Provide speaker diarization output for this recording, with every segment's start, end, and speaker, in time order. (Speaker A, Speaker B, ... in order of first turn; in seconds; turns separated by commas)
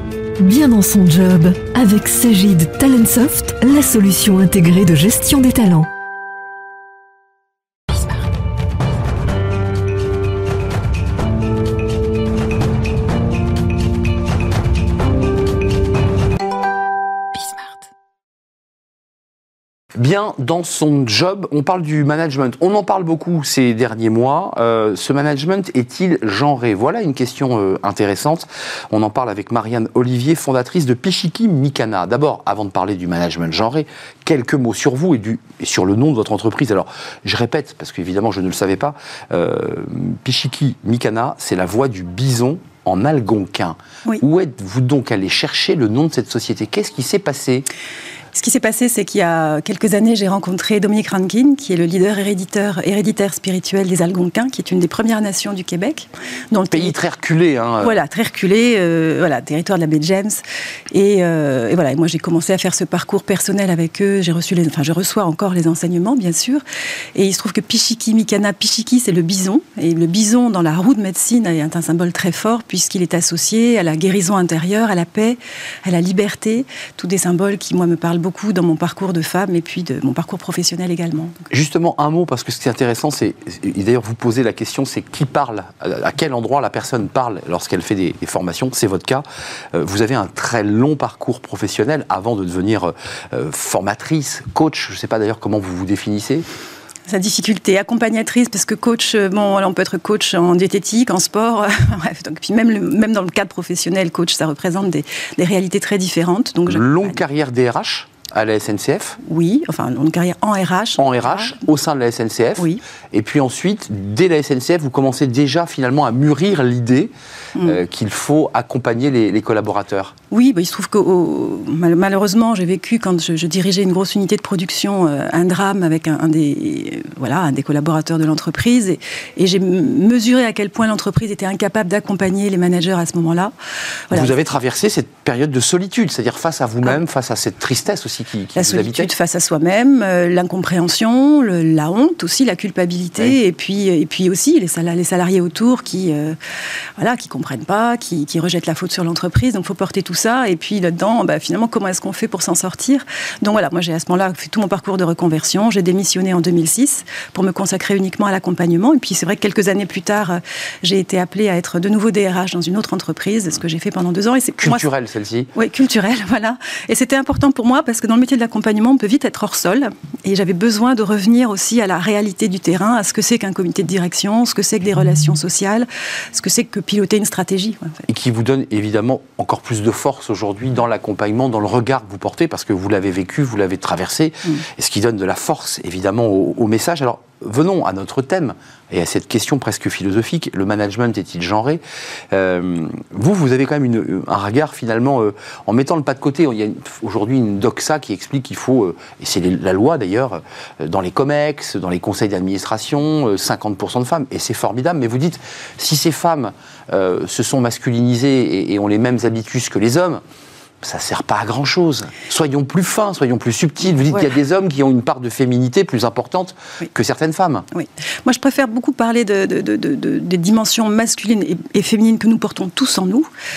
Speaker A: 0.4-5.9, Speaker B: 20.0-47.7, Speaker C: 48.3-57.0, Speaker B: 56.7-58.0, Speaker C: 57.8-66.6, Speaker C: 67.2-81.4, Speaker B: 81.5-96.5, Speaker C: 97.1-107.2, Speaker B: 106.7-109.2, Speaker C: 109.2-111.6, Speaker B: 111.0-120.2, Speaker C: 120.3-133.5, Speaker B: 134.1-139.1, Speaker C: 138.6-146.4, Speaker C: 147.0-164.9, Speaker B: 164.6-165.5, Speaker C: 165.5-178.1, Speaker B: 178.1-210.2, Speaker B: 210.8-217.7, Speaker C: 217.7-223.3